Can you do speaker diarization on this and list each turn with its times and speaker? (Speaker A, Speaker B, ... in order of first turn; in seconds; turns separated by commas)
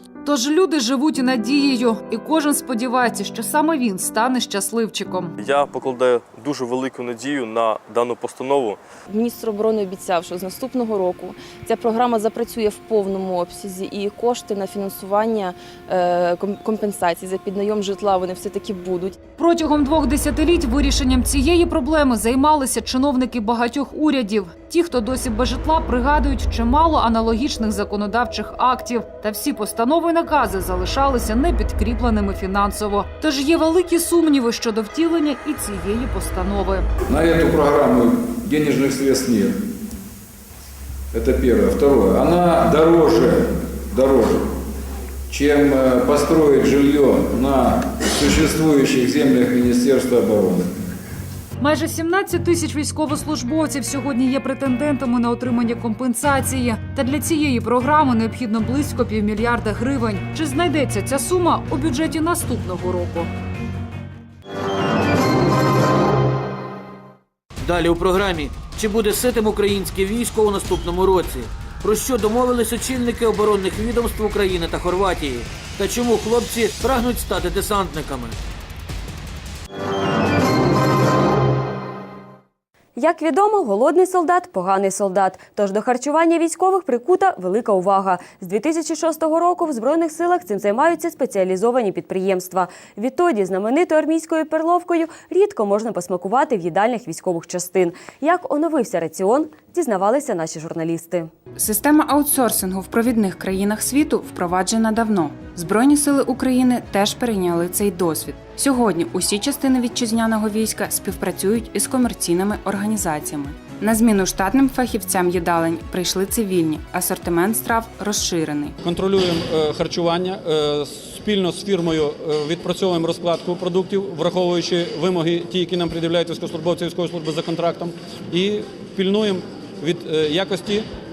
Speaker A: 0.2-5.3, Speaker B: 5.4-8.8, Speaker C: 9.1-19.2, Speaker A: 19.4-36.9, Speaker D: 37.1-39.6, Speaker D: 41.1-44.5, Speaker D: 45.3-50.7, Speaker A: 51.6-63.3, Speaker E: 67.6-78.4, Speaker F: 83.0-101.3, Speaker G: 101.6-118.8, Speaker H: 118.8-130.9